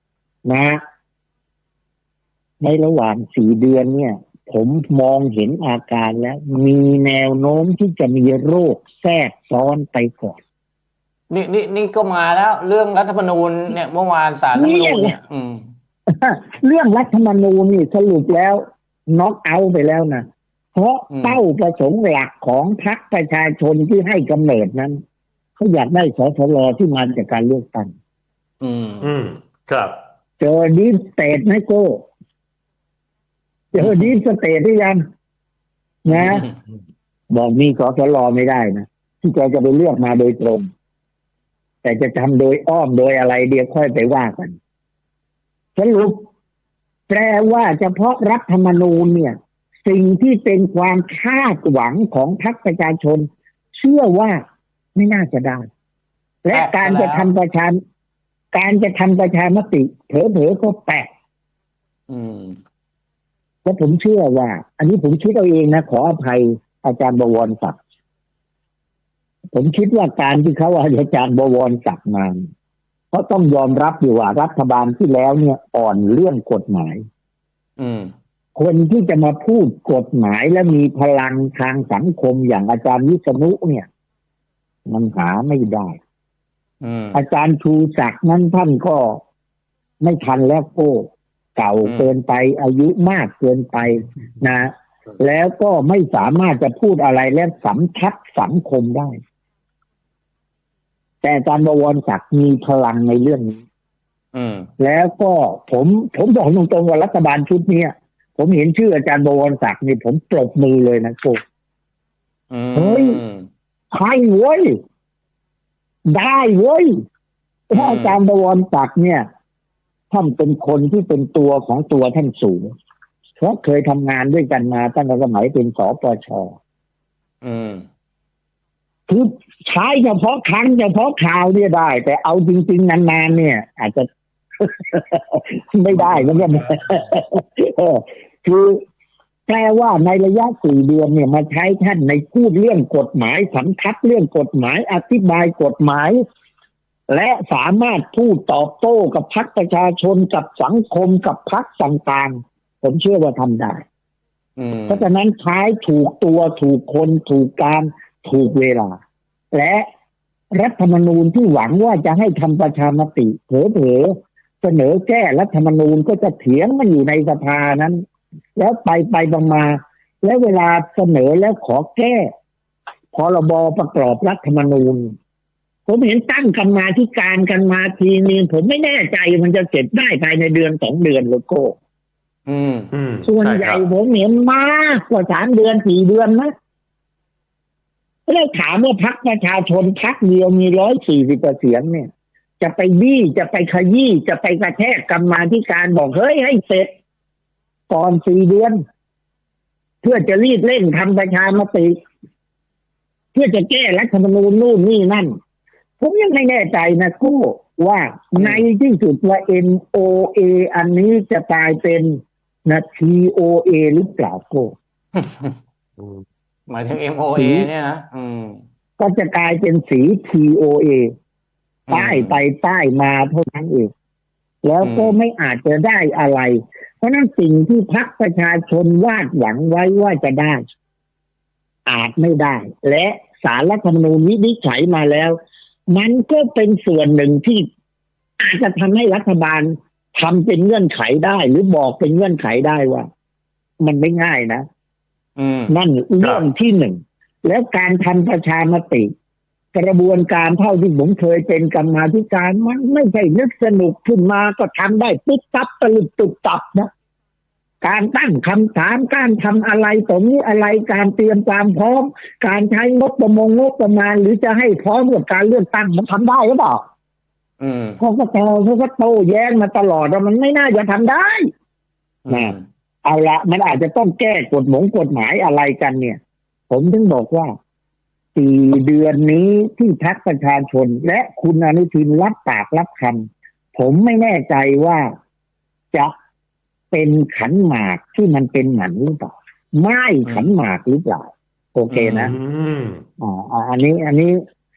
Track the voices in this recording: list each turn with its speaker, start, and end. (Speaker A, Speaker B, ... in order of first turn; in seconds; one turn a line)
Speaker A: 0.5-0.8
Speaker A: 2.6-10.4
Speaker B: 11.3-15.6
Speaker A: 14.6-15.2
Speaker A: 16.1-25.0
Speaker B: 21.1-21.4
Speaker A: 25.6-27.9
Speaker B: 28.6-29.1
Speaker C: 29.0-30.0
Speaker A: 30.4-32.0
Speaker A: 33.7-35.0
Speaker A: 36.0-36.5
Speaker B: 36.1-36.5
Speaker A: 37.3-40.7
Speaker A: 41.8-44.6
Speaker A: 45.8-46.2
Speaker A: 47.1-53.3
Speaker A: 53.8-54.4
Speaker A: 55.0-55.7
Speaker A: 56.5-57.8
Speaker B: 56.5-57.3
Speaker A: 58.5-61.1
Speaker B: 62.1-62.6
Speaker A: 63.6-67.8
Speaker A: 69.5-72.5
Speaker A: 73.1-77.0
Speaker B: 77.8-78.1
Speaker A: 78.5-83.9
Speaker A: 84.9-86.0
Speaker B: 86.8-87.2
Speaker A: 87.1-89.2
Speaker A: 90.0-91.1
Speaker A: 91.6-99.2
Speaker A: 101.2-103.6
Speaker B: 104.3-104.7
Speaker A: 104.8-111.4
Speaker B: 112.5-113.5
Speaker A: 112.8-113.2
Speaker A: 113.9-114.8
Speaker A: 116.1-116.9
Speaker A: 117.7-119.3
Speaker B: 117.7-118.2
Speaker A: 120.1-122.7
Speaker A: 123.4-126.6
Speaker B: 127.4-127.8
Speaker A: 129.1-134.1
Speaker A: 134.6-138.8
Speaker B: 135.9-136.6
Speaker A: 139.5-146.2
Speaker A: 147.1-153.8
Speaker B: 154.6-155.1
Speaker A: 154.9-159.0
Speaker A: 159.5-159.9
Speaker A: 160.6-168.0
Speaker A: 168.6-172.3
Speaker A: 173.1-175.1
Speaker A: 175.9-181.8
Speaker B: 182.5-182.9
Speaker C: 182.9-183.8
Speaker A: 183.2-186.5
Speaker A: 188.3-192.1
Speaker A: 192.6-196.9
Speaker A: 197.9-198.8
Speaker A: 200.0-202.0
Speaker A: 203.3-205.4
Speaker A: 206.0-214.7
Speaker B: 208.4-208.7
Speaker B: 215.2-215.6
Speaker B: 216.7-218.6
Speaker A: 217.4-217.7
Speaker A: 219.0-221.1
Speaker B: 221.9-222.4
Speaker A: 221.9-223.9
Speaker A: 224.6-230.6
Speaker B: 224.8-225.2
Speaker A: 231.9-235.4
Speaker A: 235.9-237.7
Speaker A: 238.4-243.1
Speaker A: 243.8-244.7
Speaker B: 245.4-245.7
Speaker A: 245.7-249.1
Speaker A: 249.7-256.9
Speaker A: 257.8-266.8
Speaker B: 267.6-268.0
Speaker A: 268.0-271.5
Speaker B: 272.3-272.6
Speaker A: 272.3-276.2
Speaker A: 276.7-277.5
Speaker A: 278.4-285.1
Speaker A: 286.9-292.3
Speaker B: 291.9-292.4
Speaker C: 292.3-293.0
Speaker A: 293.2-294.4